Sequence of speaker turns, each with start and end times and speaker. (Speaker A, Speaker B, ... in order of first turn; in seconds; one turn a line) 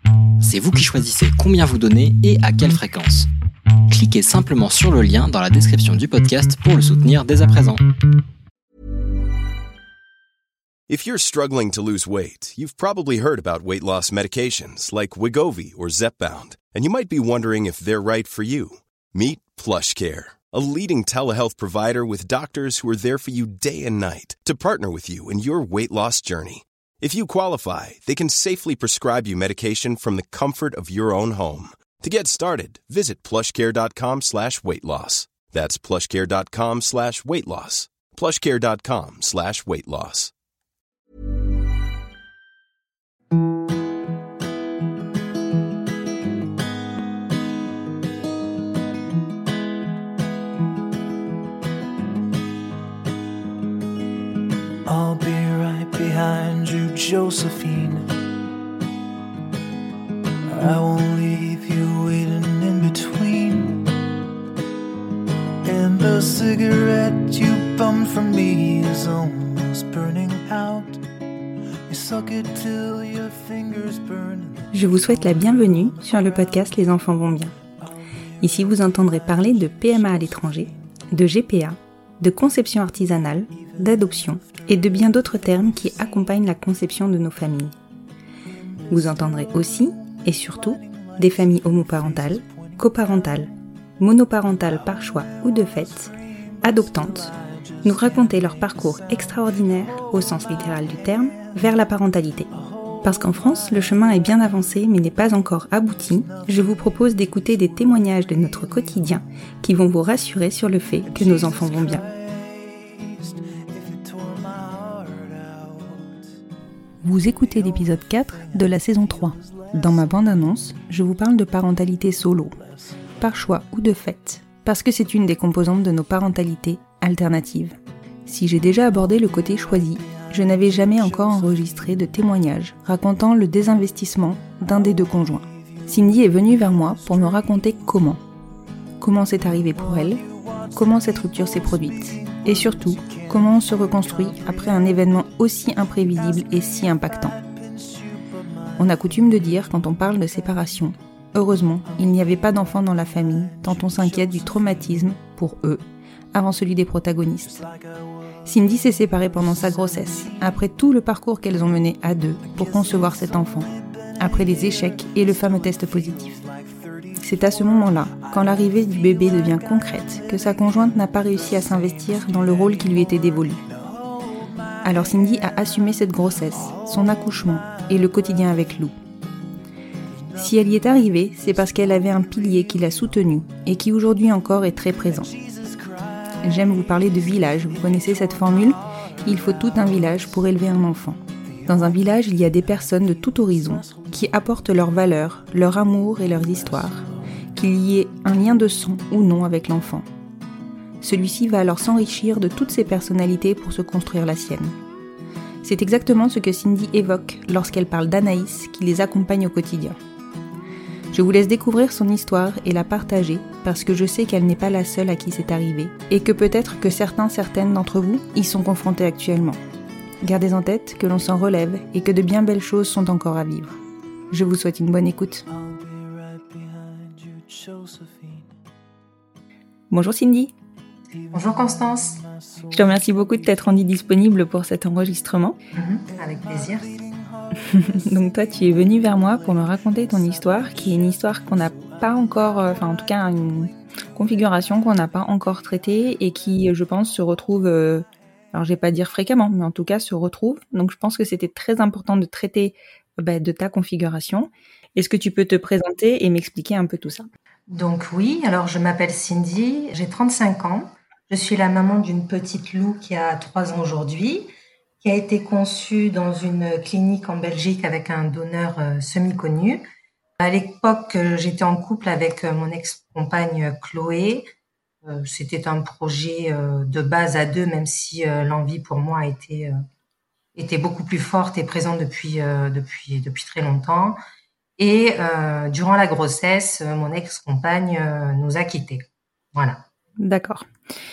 Speaker A: 0.4-3.3
Speaker A: 3.9-7.8
Speaker B: 10.9-40.3
Speaker C: 54.9-58.1
Speaker C: 60.5-63.9
Speaker C: 65.6-71.0
Speaker C: 71.9-76.7
Speaker D: 74.7-77.5
Speaker D: 78.4-87.7
Speaker C: 78.5-80.7
Speaker C: 83.6-85.8
Speaker C: 88.8-93.4
Speaker D: 88.9-96.1
Speaker C: 94.7-101.5
Speaker D: 96.6-97.3
Speaker D: 97.8-102.5
Speaker C: 102.5-104.2
Speaker D: 103.0-112.0
Speaker C: 106.2-106.9
Speaker C: 111.1-116.4
Speaker D: 117.0-122.6
Speaker C: 117.4-120.5
Speaker C: 122.6-123.0
Speaker D: 123.2-138.2
Speaker C: 130.0-132.0
Speaker C: 134.7-135.5
Speaker C: 136.8-137.4
Speaker D: 139.0-140.2
Speaker C: 139.6-145.2
Speaker D: 140.7-147.3
Speaker C: 146.0-149.2
Speaker D: 148.8-155.8
Speaker C: 152.0-155.1
Speaker D: 156.3-157.6
Speaker C: 157.4-158.4
Speaker D: 158.4-166.3
Speaker C: 159.1-160.5
Speaker C: 162.4-178.7
Speaker D: 167.2-173.6
Speaker D: 174.8-178.9
Speaker C: 180.1-183.4
Speaker D: 180.4-185.3
Speaker C: 185.1-190.5
Speaker D: 186.4-197.0
Speaker C: 191.4-194.3
Speaker C: 196.5-197.1
Speaker D: 197.5-200.1
Speaker D: 201.0-204.8
Speaker D: 205.6-210.0
Speaker D: 211.1-219.6
Speaker D: 220.2-223.8
Speaker D: 224.3-225.4
Speaker C: 225.5-228.5
Speaker D: 229.9-230.5
Speaker C: 231.1-233.5
Speaker E: 231.3-232.2
Speaker D: 232.7-235.6
Speaker E: 235.7-236.9
Speaker C: 236.1-243.8
Speaker D: 237.6-257.3
Speaker E: 257.7-264.5
Speaker E: 265.0-269.9
Speaker E: 270.4-274.5
Speaker E: 275.0-279.8
Speaker E: 280.6-284.2
Speaker E: 284.8-289.8
Speaker D: 290.2-290.7